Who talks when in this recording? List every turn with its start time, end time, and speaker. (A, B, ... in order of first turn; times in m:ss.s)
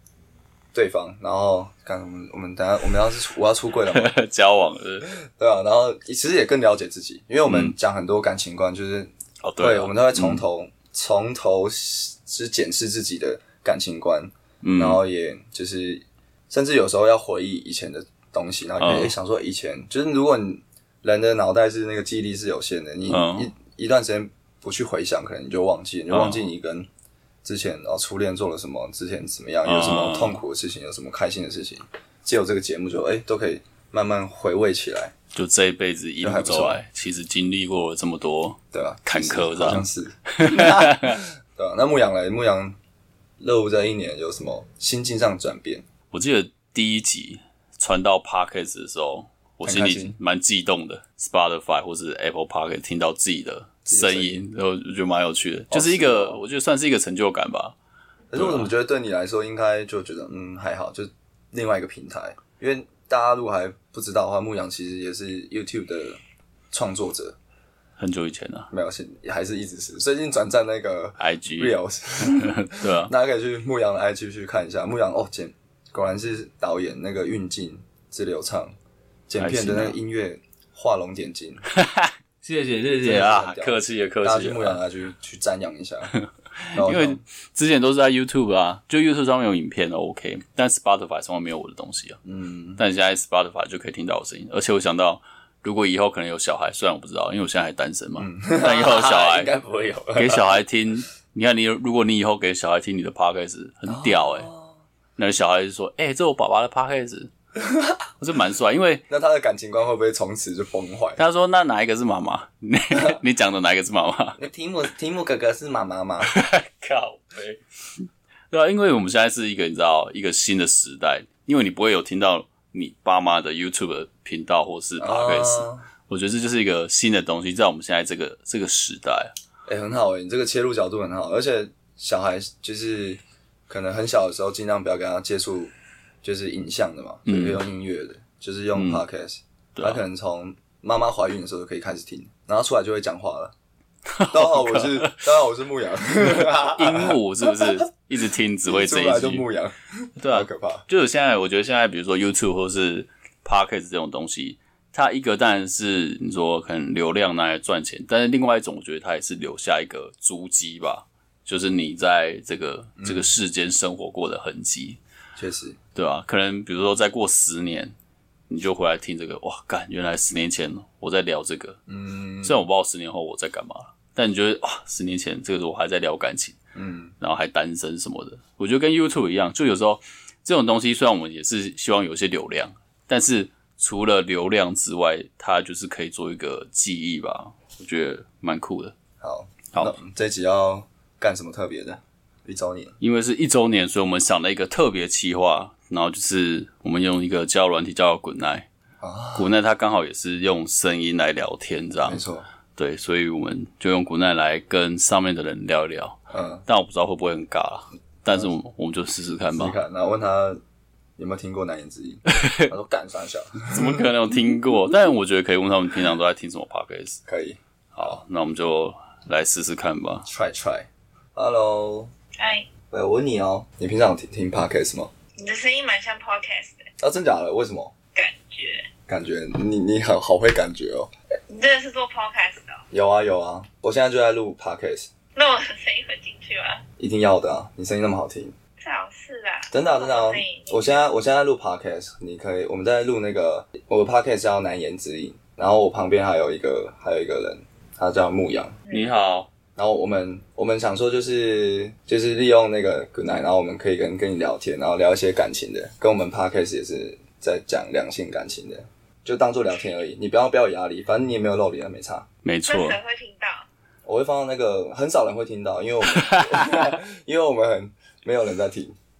0:00.7-0:04.1 A
0:03.9-0:05.1 B
0:05.1-0:26.9 A
0:07.5-0:07.7 B
0:09.4-0:10.4 B
0:14.6-0:15.0 B
0:18.8-0:19.1 B
0:23.1-0:23.5 B
0:26.1-0:26.4 B
0:27.4-0:35.1 A
0:29.6-0:30.4 B
0:35.3-0:41.2 B
0:36.2-0:36.8 A
0:38.7-0:42.8 A
0:43.4-0:45.9 A
0:46.1-0:57.8 B
0:49.6-0:50.2 A
0:53.9-0:54.4 A
0:55.7-0:56.4 A
0:58.3-1:06.2 A
0:58.3-0:58.7 B
1:06.7-1:07.4 A
1:08.0-1:08.7 B
1:08.7-1:18.8 A
1:11.2-1:11.7 B
1:12.2-1:13.1 B
1:19.3-1:21.6 A
1:19.4-1:20.0 B
1:21.7-1:24.8 B
1:23.0-1:26.1 A
1:26.1-1:32.2 B
1:26.7-1:27.2 A
1:32.2-1:32.8 A
1:32.8-1:39.5 B
1:38.2-1:40.6 A
1:40.1-1:44.5 B
1:43.9-1:44.8 A
1:45.2-1:47.3 B
1:47.6-1:48.0 A
1:48.2-1:49.0 B
1:49.1-1:51.2 A
1:51.2-1:54.4 B
1:54.4-1:56.3 A
1:56.2-2:09.3 B
2:05.0-2:05.8 A
2:09.7-2:15.7 A
2:16.2-2:23.5 A
2:17.2-2:17.6 B
2:18.8-2:19.0 B
2:19.8-2:20.0 B
2:24.1-2:25.2 B
2:24.3-2:27.8 A
2:26.2-2:29.4 B
2:28.7-2:30.8 A
2:30.2-2:45.0 B
2:43.0-2:43.3 A
2:45.4-2:45.8 A
2:45.9-2:47.9 B
2:48.5-2:51.8 B
2:51.9-2:52.6 A
2:52.4-2:56.6 B
2:56.8-2:57.1 A
2:57.2-3:08.9 B
3:09.2-3:12.9 A
3:13.0-3:18.7 B
3:19.0-3:19.5 A
3:19.3-3:22.2 B
3:22.0-3:22.5 A
3:22.8-3:29.8 B
3:26.3-3:26.6 A
3:29.5-3:30.6 A
3:31.2-3:34.0 A
3:32.3-3:32.7 B
3:33.6-3:37.2 B
3:37.2-3:38.2 A
3:37.9-3:40.3 B
3:40.2-3:42.1 A
3:42.4-3:42.7 C
3:42.9-3:45.1 A
3:45.4-3:46.9 C
3:47.0-3:47.9 A
3:48.1-3:48.9 C
3:49.1-3:51.1 A
3:51.5-3:52.8 C
3:52.9-3:55.1 A
3:55.3-3:56.8 C
3:57.0-3:58.6 A
3:58.8-4:01.0 C
3:59.7-4:08.8 A
4:08.9-4:09.5 B
4:09.8-4:22.3 A
4:22.4-4:23.0 B
4:22.7-4:23.7 C
4:24.0-4:29.0 A
4:26.2-4:26.8 B